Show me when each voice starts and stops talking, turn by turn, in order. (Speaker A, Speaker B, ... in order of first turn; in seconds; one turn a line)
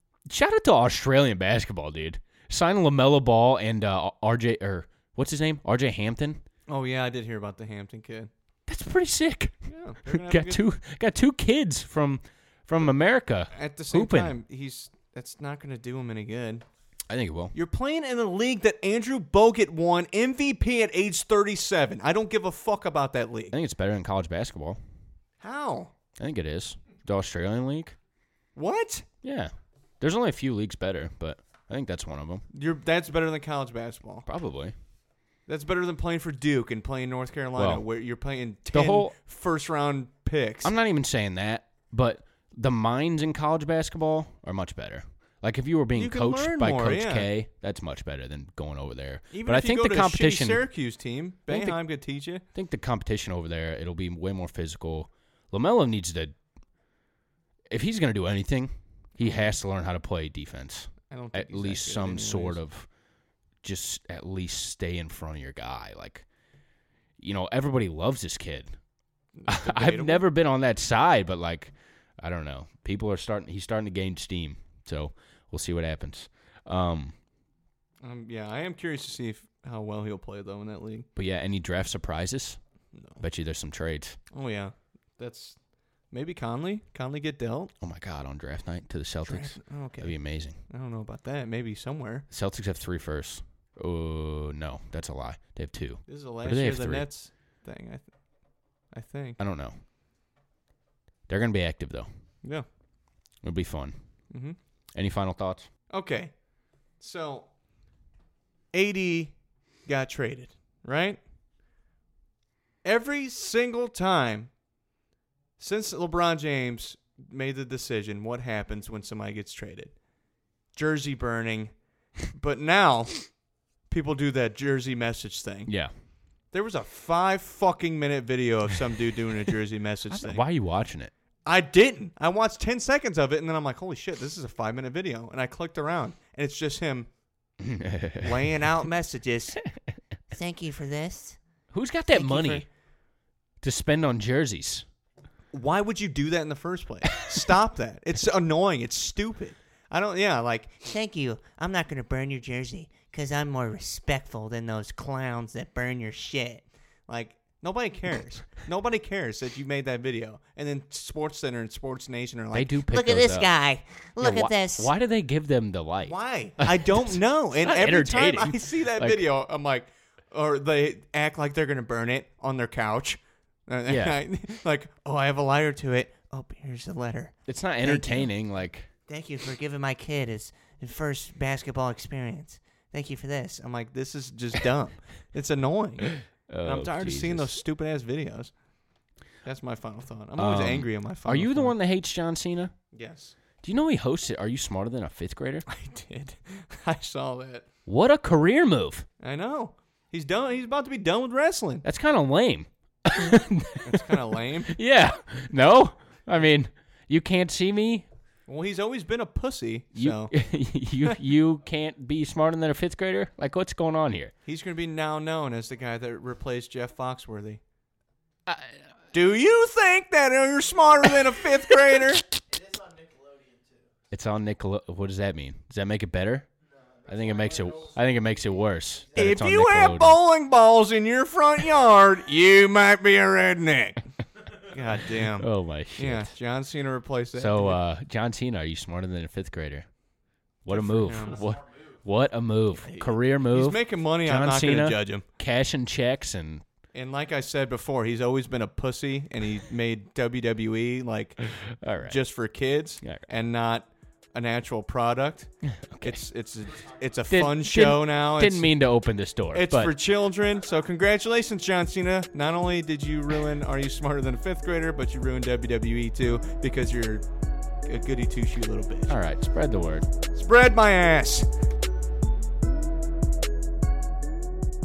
Speaker A: 0.3-6.4
Speaker B: 6.7-8.3
Speaker A: 8.7-9.5
Speaker B: 9.7-10.6
Speaker A: 10.1-14.3
Speaker B: 13.5-16.6
Speaker A: 17.1-17.5
Speaker B: 17.5-23.5
Speaker A: 23.5-24.8
Speaker B: 25.4-25.9
Speaker A: 26.2-27.9
Speaker B: 28.6-29.0
Speaker A: 29.2-32.4
Speaker B: 32.5-34.2
Speaker A: 34.2-34.7
Speaker B: 35.5-40.7
Speaker A: 37.5-37.9
Speaker A: 38.7-39.1
Speaker A: 40.6-50.6
Speaker B: 45.9-47.3
Speaker B: 49.3-52.4
Speaker A: 51.5-51.8
Speaker A: 52.5-56.3
Speaker A: 57.7-62.9
Speaker B: 59.2-59.6
Speaker B: 61.1-62.6
Speaker A: 63.6-66.2
Speaker A: 67.2-68.7
Speaker B: 69.3-70.2
Speaker A: 69.5-77.1
Speaker B: 78.0-81.1
Speaker A: 81.2-82.6
Speaker B: 82.9-83.2
Speaker A: 83.2-84.2
Speaker B: 84.3-85.6
Speaker B: 86.1-87.7
Speaker A: 87.8-90.6
Speaker B: 89.2-90.1
Speaker B: 90.7-92.2
Speaker A: 92.3-97.1
Speaker B: 96.1-98.1
Speaker B: 98.9-99.4
Speaker A: 99.4-99.8
Speaker A: 101.3-102.1
Speaker A: 103.4-104.0
Speaker B: 104.3-104.6
Speaker A: 104.9-105.7
Speaker B: 105.9-106.3
Speaker B: 107.0-107.5
Speaker B: 108.7-109.3
Speaker B: 109.9-111.2
Speaker B: 112.8-114.5
Speaker B: 115.6-119.9
Speaker B: 120.7-121.7
Speaker B: 122.2-123.3
Speaker B: 123.9-125.7
Speaker B: 126.5-130.4
Speaker A: 130.1-131.1
Speaker B: 131.4-137.1
Speaker A: 137.6-138.7
Speaker B: 138.2-139.6
Speaker C: 140.3-141.4
Speaker B: 140.4-141.2
Speaker A: 141.7-142.7
Speaker B: 142.1-142.6
Speaker A: 143.6-144.8
Speaker B: 145.5-163.5
Speaker C: 150.9-156.6
Speaker A: 162.5-163.5
Speaker C: 162.9-164.9
Speaker A: 164.2-169.2
Speaker B: 164.2-164.6
Speaker B: 166.1-178.3
Speaker A: 173.8-174.2
Speaker A: 177.5-178.9
Speaker C: 179.1-182.1
Speaker B: 179.1-188.5
Speaker A: 186.2-187.6
Speaker B: 189.4-191.7
Speaker A: 190.3-192.7
Speaker B: 192.9-193.3
Speaker A: 193.6-195.7
Speaker B: 195.7-197.7
Speaker A: 197.9-199.1
Speaker B: 199.2-201.8
Speaker A: 201.8-208.1
Speaker B: 203.8-204.8
Speaker B: 208.5-210.3
Speaker A: 209.9-214.3
Speaker B: 214.4-217.6
Speaker B: 219.1-222.2
Speaker A: 224.1-226.5
Speaker A: 227.0-230.2
Speaker B: 229.2-234.0
Speaker B: 234.6-237.8
Speaker A: 235.4-236.3
Speaker A: 237.3-239.9
Speaker A: 240.6-246.6
Speaker B: 240.7-241.6
Speaker B: 242.8-245.2
Speaker B: 246.9-251.5
Speaker A: 251.6-252.2
Speaker B: 252.0-258.7
Speaker A: 255.7-256.2
Speaker A: 257.3-259.9
Speaker B: 259.5-267.2
Speaker B: 267.8-269.1
Speaker A: 269.1-270.1
Speaker B: 270.3-271.5